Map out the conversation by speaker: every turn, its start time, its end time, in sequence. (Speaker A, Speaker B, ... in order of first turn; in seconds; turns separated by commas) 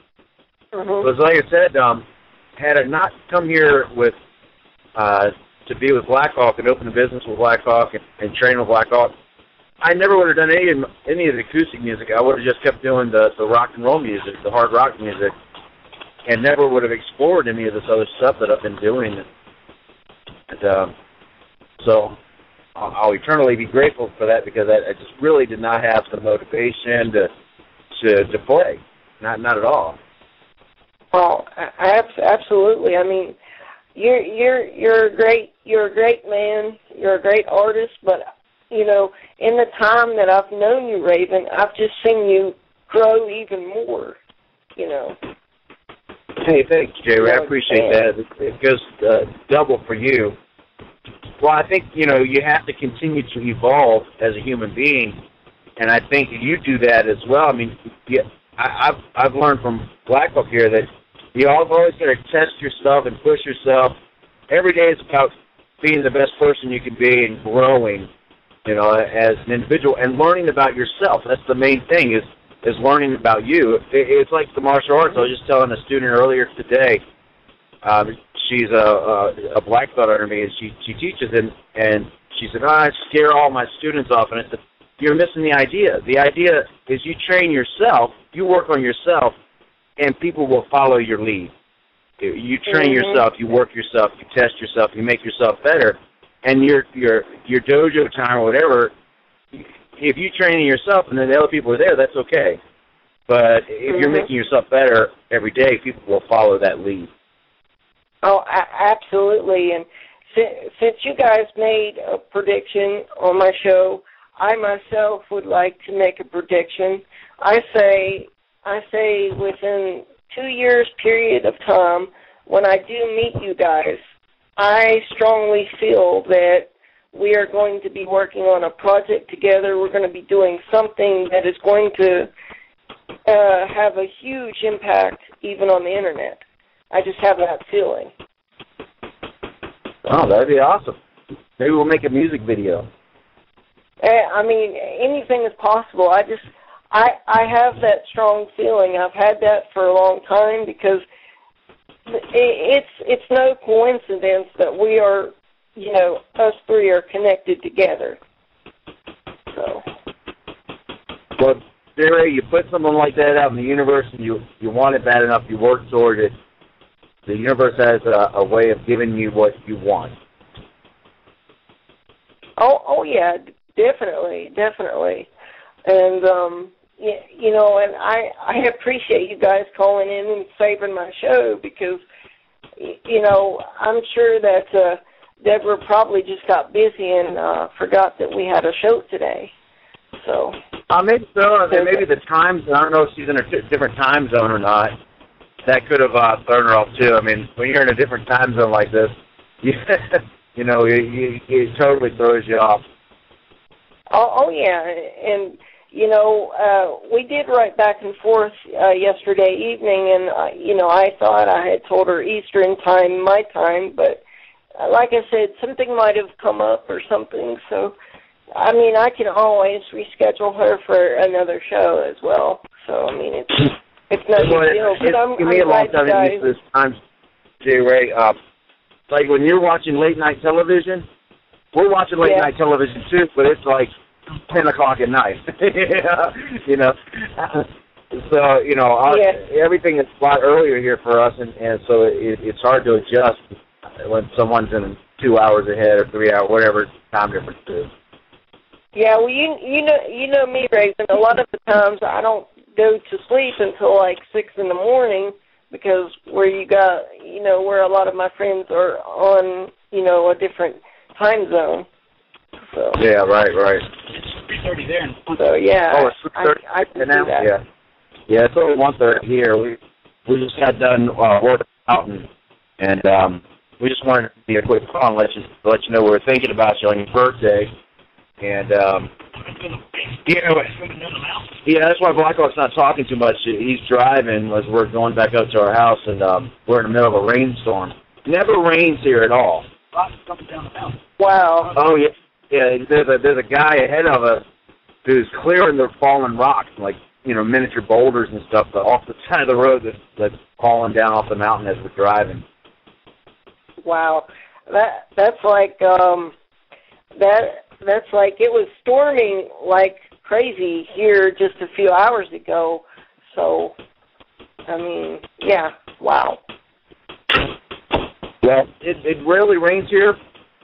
Speaker A: 0.7-1.1, Speaker B: 1.0-2.0, Speaker B: 2.6-4.2, Speaker B: 5.0-9.1, Speaker B: 9.8-15.3, Speaker B: 16.2-19.2, Speaker B: 20.5-20.9, Speaker B: 21.8-22.2, Speaker B: 22.8-27.3, Speaker B: 27.9-30.0, Speaker A: 31.1-33.4, Speaker A: 34.0-44.2, Speaker A: 44.8-45.2, Speaker B: 46.4-50.4, Speaker A: 47.2-48.0, Speaker B: 51.4-55.2, Speaker B: 55.8-64.0, Speaker B: 64.5-68.1, Speaker B: 68.7-77.0, Speaker B: 77.8-89.3, Speaker B: 90.0-91.5, Speaker B: 92.2-98.9, Speaker A: 92.7-93.2, Speaker B: 99.5-102.6, Speaker B: 103.3-107.1, Speaker A: 103.9-104.3, Speaker A: 108.2-124.0, Speaker A: 124.6-132.3, Speaker A: 133.3-136.4, Speaker A: 136.9-138.1, Speaker B: 140.1-141.0, Speaker B: 141.6-142.9, Speaker A: 144.0-151.0, Speaker A: 152.1-158.2, Speaker A: 159.5-159.8, Speaker B: 161.4-166.3, Speaker B: 167.3-170.2, Speaker A: 172.6-175.3, Speaker A: 175.9-182.0, Speaker A: 182.8-189.5, Speaker A: 190.2-190.6, Speaker B: 190.9-194.9, Speaker A: 191.7-192.0, Speaker B: 195.7-202.8, Speaker A: 204.1-214.2, Speaker A: 214.8-217.9, Speaker A: 218.6-226.5, Speaker B: 224.4-227.0, Speaker B: 227.6-228.4, Speaker B: 229.1-231.1, Speaker B: 231.7-233.9, Speaker A: 232.2-232.5, Speaker B: 234.5-243.5, Speaker A: 239.1-239.4, Speaker B: 244.0-247.9, Speaker A: 248.9-261.9, Speaker A: 262.7-263.0, Speaker B: 263.0-263.9, Speaker C: 264.3-265.4, Speaker A: 265.4-267.5, Speaker B: 265.9-267.6, Speaker B: 268.3-272.3, Speaker B: 272.8-277.7, Speaker B: 278.4-279.1, Speaker B: 280.3-280.7, Speaker C: 280.7-281.4, Speaker B: 281.6-289.7, Speaker C: 289.9-291.0, Speaker A: 291.2-291.7, Speaker B: 291.7-294.4, Speaker B: 295.1-302.4, Speaker A: 303.8-306.3, Speaker A: 307.2-313.7, Speaker A: 314.7-316.4, Speaker B: 318.4-320.2